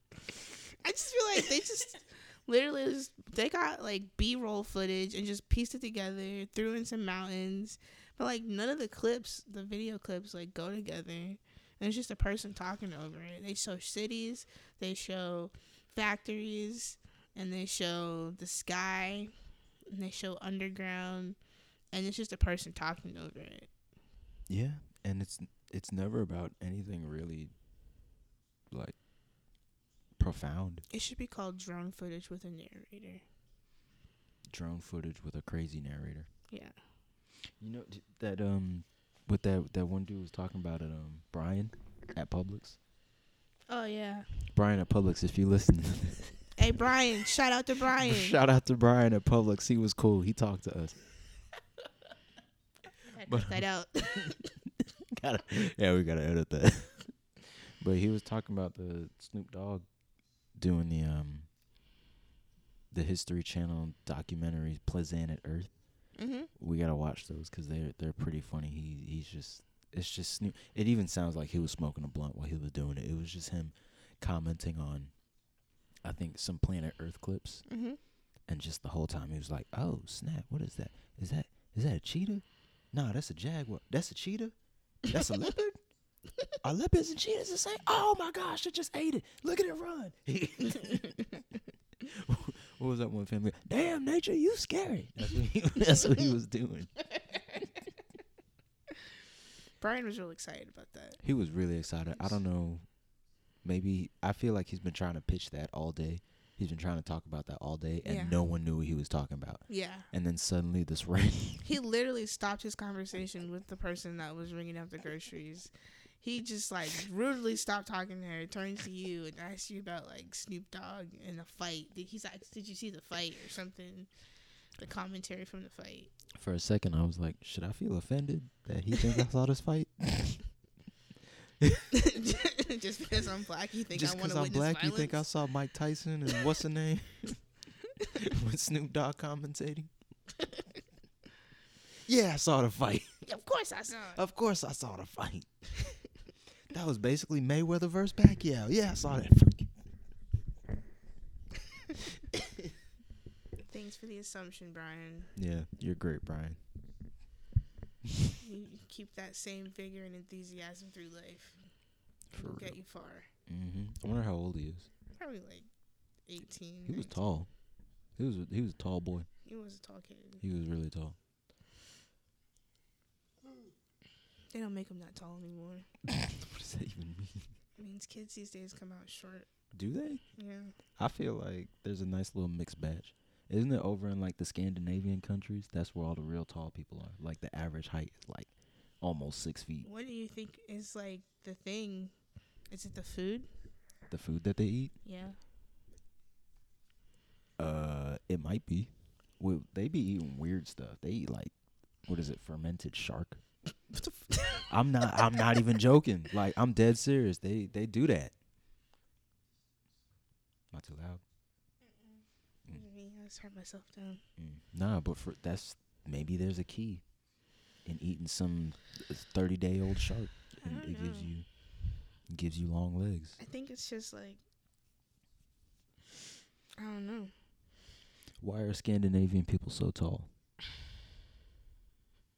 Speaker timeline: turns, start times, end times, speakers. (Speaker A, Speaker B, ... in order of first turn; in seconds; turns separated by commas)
Speaker A: 0.8-19.3, Speaker A: 19.9-21.4, Speaker A: 21.9-23.7, Speaker B: 24.5-27.5, Speaker B: 28.7-28.9, Speaker B: 30.2-30.9, Speaker A: 30.9-33.2, Speaker B: 34.5-36.3, Speaker A: 36.5-36.8, Speaker B: 37.6-42.8, Speaker A: 43.7-44.3, Speaker B: 44.5-46.3, Speaker A: 46.6-48.4, Speaker B: 47.9-51.0, Speaker A: 53.0-54.6, Speaker B: 53.2-53.6, Speaker B: 54.1-59.8, Speaker B: 60.5-61.5, Speaker B: 62.9-65.7, Speaker A: 66.2-66.5, Speaker B: 66.5-75.1, Speaker B: 76.0-77.6, Speaker A: 77.7-78.0, Speaker B: 78.5-84.5, Speaker B: 85.1-85.8, Speaker B: 86.6-91.4, Speaker B: 92.0-96.9, Speaker A: 99.8-101.2, Speaker B: 101.2-102.8, Speaker B: 103.6-111.7, Speaker A: 108.0-108.5, Speaker A: 109.7-110.1, Speaker A: 111.6-115.7, Speaker A: 116.2-124.1, Speaker A: 124.8-126.1, Speaker B: 126.3-130.4, Speaker B: 131.6-131.9, Speaker A: 131.9-135.2, Speaker B: 133.9-137.4, Speaker B: 138.1-139.9, Speaker A: 140.4-140.7, Speaker B: 142.1-143.2, Speaker A: 143.2-144.2, Speaker B: 144.2-145.5, Speaker B: 146.7-149.7, Speaker B: 152.3-152.6, Speaker A: 153.7-155.3, Speaker B: 155.3-156.6, Speaker B: 158.0-158.3, Speaker A: 158.4-161.6, Speaker B: 162.3-162.8, Speaker A: 162.4-163.3, Speaker B: 163.5-164.9, Speaker A: 165.1-165.7, Speaker A: 166.3-167.2, Speaker B: 166.8-167.5, Speaker B: 168.2-169.3, Speaker A: 169.4-170.4, Speaker B: 170.4-171.2, Speaker A: 174.5-175.9, Speaker B: 176.0-177.5, Speaker A: 177.8-179.5, Speaker B: 179.7-180.2, Speaker A: 180.3-180.8, Speaker B: 181.0-189.9, Speaker A: 189.8-192.1, Speaker A: 192.7-193.5, Speaker B: 194.1-194.9, Speaker A: 195.0-195.4, Speaker B: 197.6-201.5, Speaker B: 202.1-203.4, Speaker A: 204.1-204.7, Speaker B: 204.7-208.3, Speaker A: 205.3-205.6, Speaker B: 210.7-211.2, Speaker A: 211.8-214.2, Speaker B: 214.4-217.0, Speaker B: 217.8-221.5, Speaker A: 220.6-221.3, Speaker B: 222.3-223.4, Speaker A: 223.4-224.4, Speaker A: 226.8-227.3, Speaker B: 228.4-230.3